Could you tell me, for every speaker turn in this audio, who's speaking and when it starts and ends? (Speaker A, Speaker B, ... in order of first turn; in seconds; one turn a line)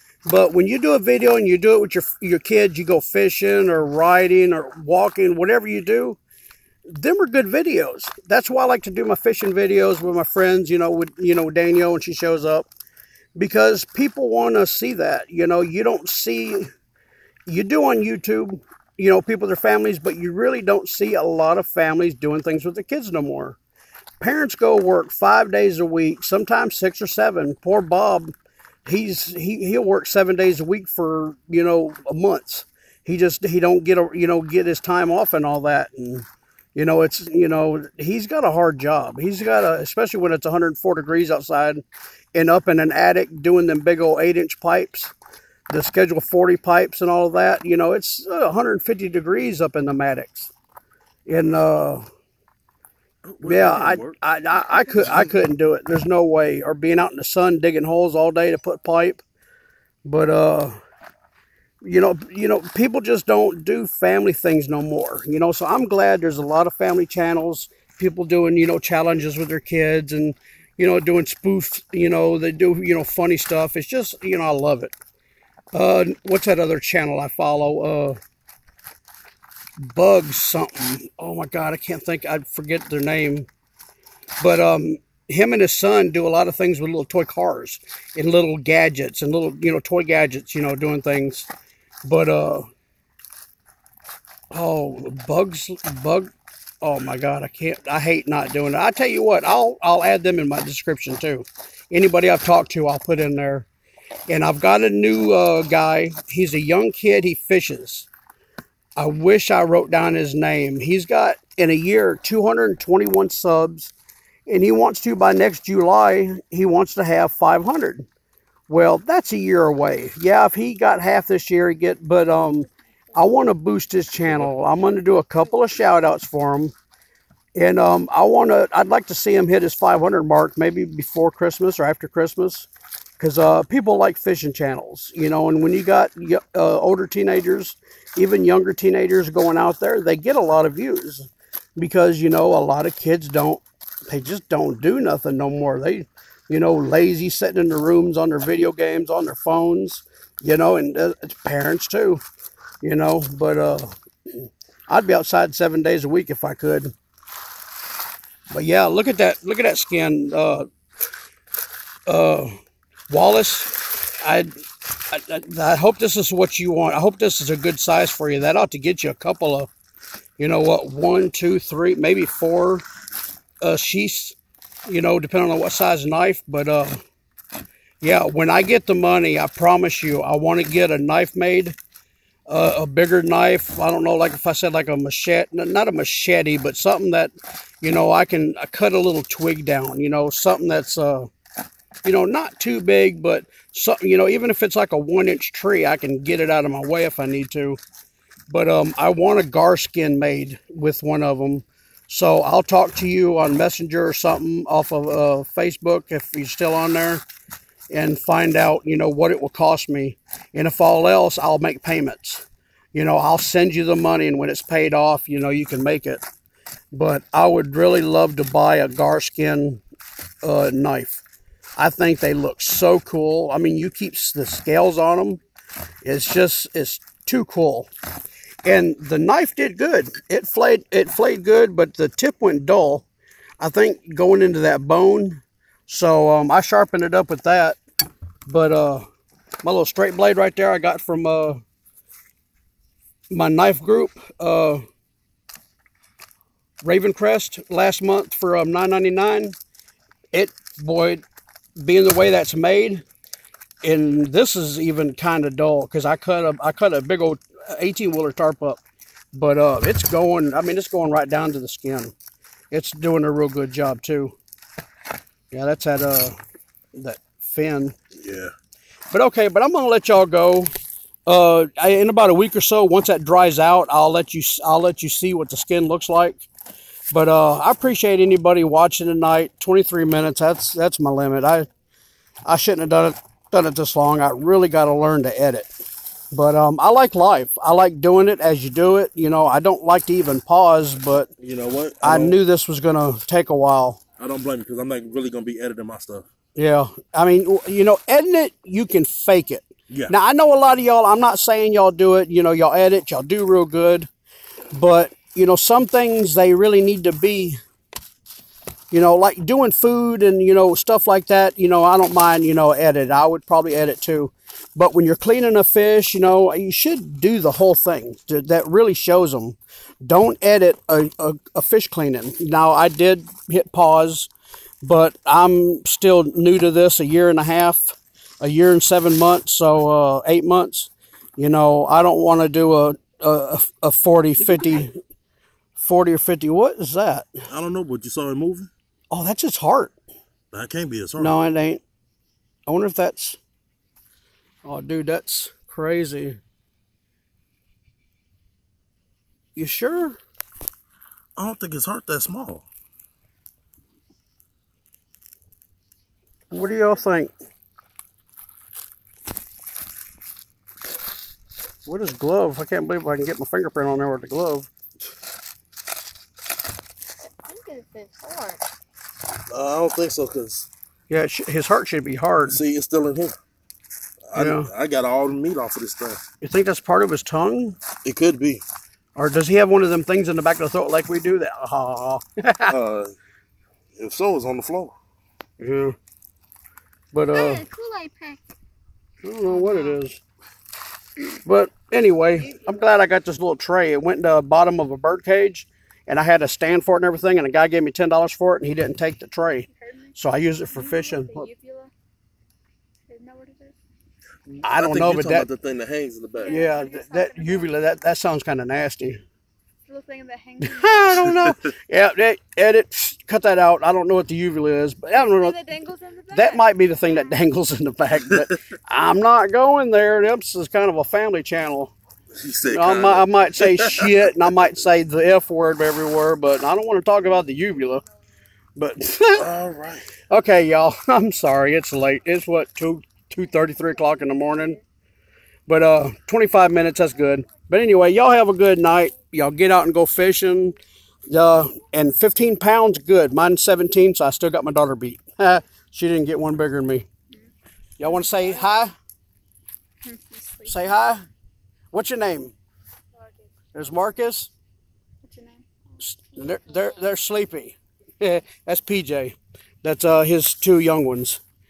Speaker A: 0.3-6.2
Speaker A: 6.9-12.7
Speaker A: 13.4-16.7
Speaker A: 17.5-23.6
Speaker A: 24.2-28.3
Speaker A: 28.9-41.8
Speaker A: 42.3-45.1
Speaker A: 45.7-50.5
Speaker A: 51.3-52.1
Speaker B: 53.2-54.2
Speaker A: 53.4-59.2
Speaker B: 54.9-55.3
Speaker A: 60.0-60.8
Speaker A: 61.8-74.9
Speaker A: 75.7-78.2
Speaker A: 79.8-83.5
Speaker A: 84.4-91.5
Speaker A: 92.0-92.7
Speaker A: 94.5-96.3
Speaker A: 96.8-103.7
Speaker A: 104.3-108.1
Speaker A: 109.0-113.9
Speaker A: 114.5-118.1
Speaker A: 118.7-126.7
Speaker A: 127.5-132.7
Speaker A: 133.2-152.2
Speaker A: 152.8-156.9
Speaker A: 158.5-160.7
Speaker A: 162.1-162.6
Speaker A: 163.1-164.5
Speaker A: 165.1-169.7
Speaker A: 170.4-172.8
Speaker A: 173.6-177.0
Speaker A: 178.0-181.8
Speaker A: 182.5-191.3
Speaker A: 192.1-197.8
Speaker A: 198.5-207.2
Speaker A: 207.9-216.2
Speaker A: 216.9-219.8
Speaker A: 220.4-221.2
Speaker A: 221.8-225.4
Speaker A: 226.0-227.9
Speaker A: 228.6-233.1
Speaker A: 233.6-237.8
Speaker A: 238.5-239.1
Speaker A: 239.6-241.6
Speaker A: 243.3-244.8
Speaker A: 246.8-249.6
Speaker A: 250.3-251.2
Speaker A: 251.8-253.1
Speaker A: 253.8-258.8
Speaker A: 259.3-262.1
Speaker A: 262.7-264.4
Speaker A: 265.5-266.4
Speaker A: 266.9-268.0
Speaker B: 268.2-268.5
Speaker A: 269.1-270.7
Speaker A: 271.3-276.5
Speaker A: 277.1-281.7
Speaker A: 282.5-285.7
Speaker A: 286.3-291.3
Speaker B: 291.4-292.4
Speaker A: 292.0-294.0
Speaker B: 294.2-296.3
Speaker A: 296.6-304.1
Speaker A: 304.7-307.6
Speaker A: 308.9-324.3
Speaker A: 324.8-335.0
Speaker A: 335.8-337.4
Speaker B: 337.5-338.7
Speaker A: 339.1-339.9
Speaker B: 340.5-341.4
Speaker A: 341.2-341.8
Speaker A: 342.7-343.4
Speaker A: 344.6-346.4
Speaker A: 349.6-350.2
Speaker B: 351.4-352.7
Speaker A: 356.5-357.3
Speaker A: 361.9-364.7
Speaker C: 367.4-368.7
Speaker B: 369.5-370.7
Speaker A: 371.1-372.6
Speaker B: 372.5-373.4
Speaker B: 374.3-376.2
Speaker A: 374.4-374.7
Speaker A: 376.4-377.8
Speaker B: 378.0-378.6
Speaker A: 379.2-382.7
Speaker B: 382.7-383.1
Speaker B: 384.0-384.9
Speaker A: 385.6-385.9
Speaker A: 387.1-387.6
Speaker C: 387.3-388.4
Speaker A: 389.2-390.2
Speaker C: 389.5-390.0
Speaker A: 391.4-401.5
Speaker C: 399.7-400.2
Speaker C: 400.7-401.9
Speaker C: 403.1-403.8
Speaker A: 404.6-405.5
Speaker B: 404.8-406.7
Speaker C: 406.4-407.8
Speaker A: 406.5-409.2
Speaker C: 409.9-411.4
Speaker A: 410.6-415.6
Speaker C: 415.2-417.4
Speaker A: 416.3-421.9
Speaker B: 422.3-424.3
Speaker A: 422.7-428.0
Speaker A: 428.8-429.5
Speaker B: 429.4-430.1
Speaker A: 430.3-434.8
Speaker A: 435.7-440.8
Speaker A: 441.3-447.1
Speaker A: 448.0-448.9
Speaker C: 448.0-448.8
Speaker C: 450.0-450.8
Speaker A: 450.7-451.3
Speaker A: 451.9-452.5
Speaker C: 453.1-453.5
Speaker A: 453.7-454.5
Speaker C: 455.2-455.6
Speaker A: 456.0-461.4